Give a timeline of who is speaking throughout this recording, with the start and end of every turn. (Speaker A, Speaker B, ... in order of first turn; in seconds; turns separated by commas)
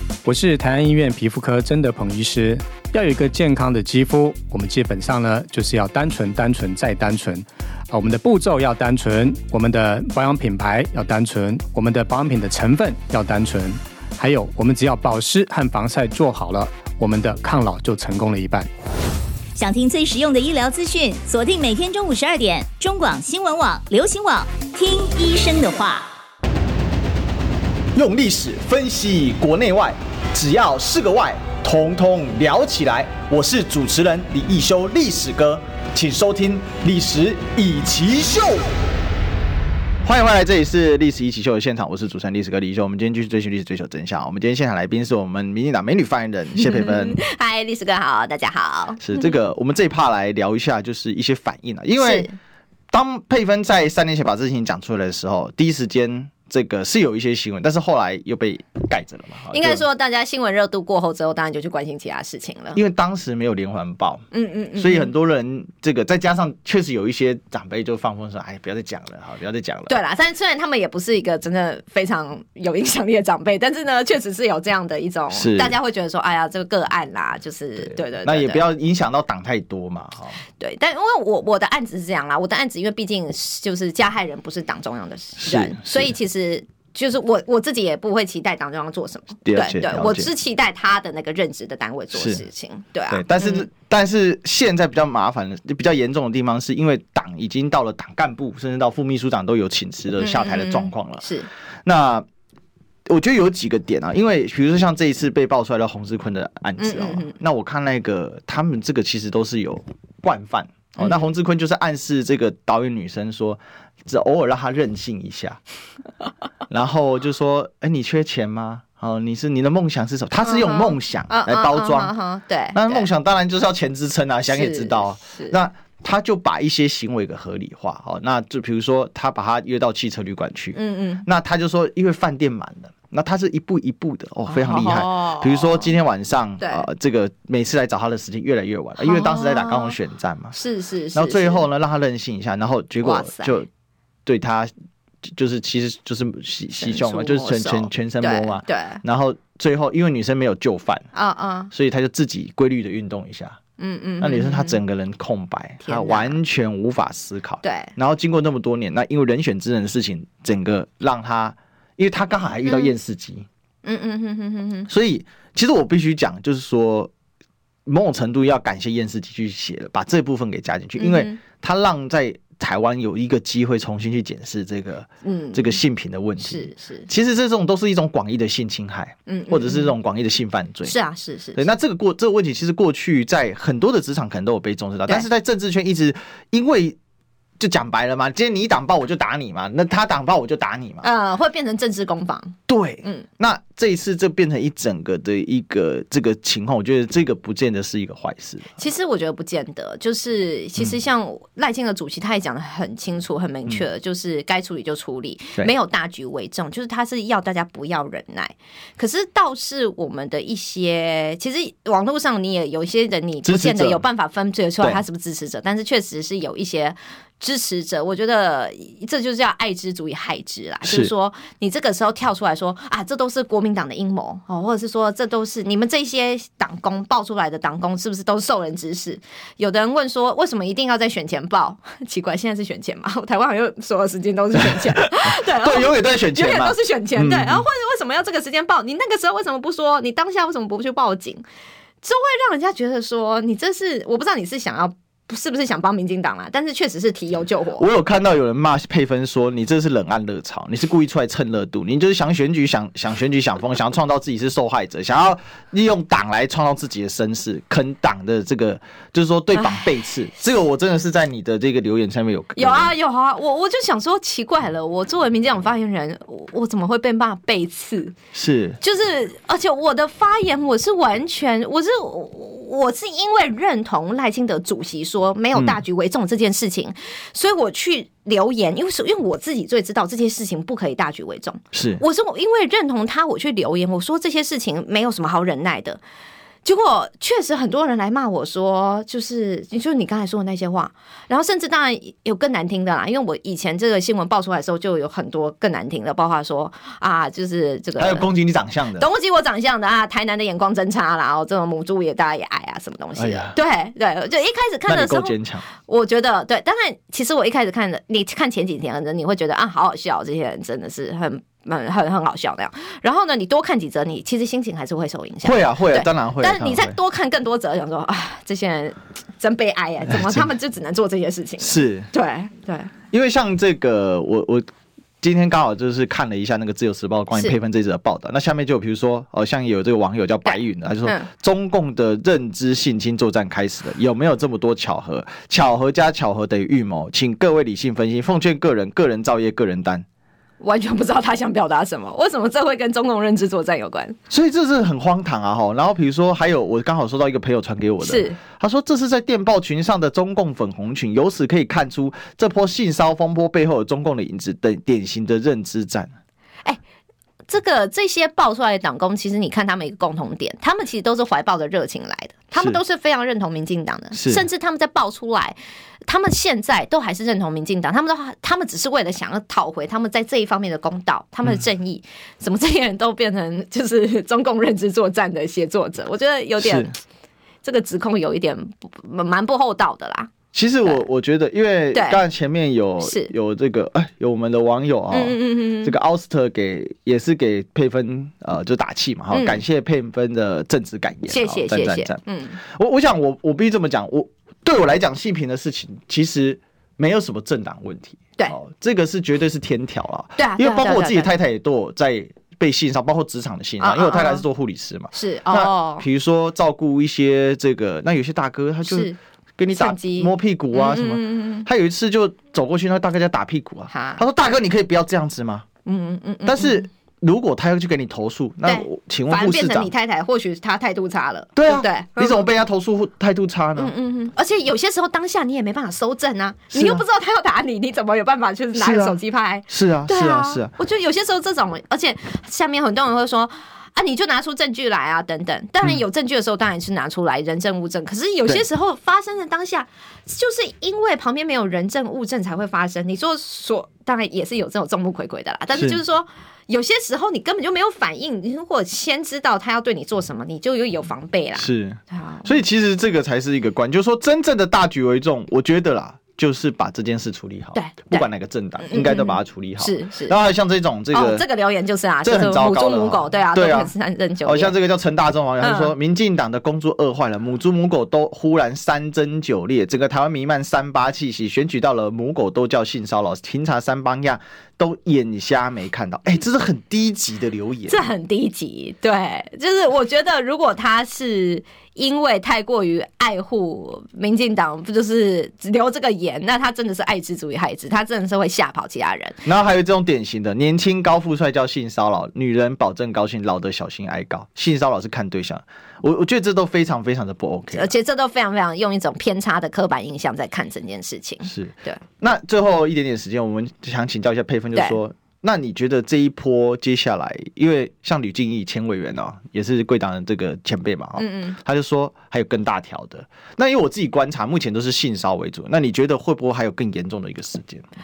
Speaker A: 0.2-18.7, Speaker B: 19.6-26.1, Speaker C: 27.9-38.7, Speaker C: 40.0-47.2, Speaker D: 46.6-49.3, Speaker C: 49.0-52.3, Speaker D: 52.0-52.4, Speaker C: 52.9-59.9, Speaker D: 59.5-62.8, Speaker C: 62.8-70.0, Speaker D: 64.3-65.1, Speaker D: 69.9-78.6, Speaker C: 75.3-75.8, Speaker C: 77.8-80.4, Speaker D: 80.6-93.7, Speaker C: 85.4-86.1, Speaker C: 89.5-90.3, Speaker C: 92.1-92.5, Speaker C: 93.1-101.3, Speaker D: 100.2-101.5, Speaker C: 101.8-102.3, Speaker C: 103.1-115.6, Speaker D: 106.8-107.4, Speaker D: 111.0-111.3, Speaker C: 116.7-122.1, Speaker D: 120.4-123.1, Speaker C: 122.7-140.6, Speaker D: 124.5-125.6, Speaker D: 130.8-131.2, Speaker D: 134.5-136.0, Speaker D: 136.6-136.9, Speaker D: 139.0-140.0, Speaker D: 140.5-141.7, Speaker C: 141.2-143.7, Speaker D: 143.0-143.6, Speaker C: 144.3-144.7, Speaker C: 145.3-151.1, Speaker D: 146.8-149.0, Speaker D: 151.1-151.7, Speaker C: 151.7-153.6, Speaker D: 153.8-154.8, Speaker C: 154.2-163.5, Speaker D: 155.8-156.4, Speaker D: 157.6-157.9, Speaker D: 162.7-162.9, Speaker D: 163.8-164.9, Speaker C: 164.9-167.1, Speaker C: 167.9-180.9, Speaker D: 171.0-171.4, Speaker D: 175.2-175.8, Speaker D: 176.4-177.1, Speaker D: 179.3-179.9, Speaker D: 180.8-181.7, Speaker C: 181.6-187.0, Speaker C: 187.6-191.1, Speaker D: 191.0-193.3, Speaker C: 192.7-198.8, Speaker D: 198.8-241.4, Speaker C: 213.4-214.1, Speaker C: 220.8-221.1, Speaker C: 234.6-237.7, Speaker D: 242.0-247.9, Speaker C: 247.8-262.9, Speaker D: 259.6-259.9, Speaker D: 262.6-268.1, Speaker C: 268.3-268.8, Speaker D: 268.8-286.0, Speaker C: 275.6-275.8, Speaker C: 281.7-282.0, Speaker D: 286.6-298.3, Speaker C: 298.0-299.1, Speaker D: 299.0-322.9, Speaker C: 303.2-303.6, Speaker C: 304.9-305.7, Speaker C: 315.4-317.0, Speaker C: 320.1-320.4, Speaker C: 321.6-322.1, Speaker C: 323.1-324.7, Speaker C: 325.2-340.1, Speaker D: 330.5-331.3, Speaker D: 340.6-344.2, Speaker C: 344.3-356.1, Speaker D: 348.0-348.4, Speaker D: 357.5-377.0, Speaker C: 364.1-364.4, Speaker C: 376.6-376.9, Speaker D: 377.6-380.3, Speaker C: 380.5-415.7, Speaker D: 381.9-382.2, Speaker D: 383.0-383.3, Speaker D: 385.1-386.0, Speaker D: 389.3-389.6, Speaker D: 391.3-392.6, Speaker D: 400.4-401.4, Speaker D: 403.8-404.4, Speaker D: 405.1-406.1, Speaker D: 408.9-409.2, Speaker D: 409.7-411.7, Speaker D: 413.9-414.2, Speaker D: 415.9-416.9, Speaker C: 416.4-419.9, Speaker D: 418.6-422.5, Speaker C: 421.6-423.9, Speaker D: 423.8-452.6, Speaker C: 426.7-427.1, Speaker C: 428.8-429.2, Speaker C: 429.7-430.7, Speaker C: 445.7-446.0, Speaker C: 451.6-461.4, Speaker D: 457.7-458.3, Speaker D: 458.8-460.4, Speaker D: 461.1-464.8, Speaker C: 462.2-463.9, Speaker C: 464.4-478.1, Speaker D: 465.6-465.9, Speaker D: 477.9-489.4, Speaker C: 489.4-497.9, Speaker D: 497.7-502.0, Speaker C: 501.5-517.9, Speaker D: 511.2-511.6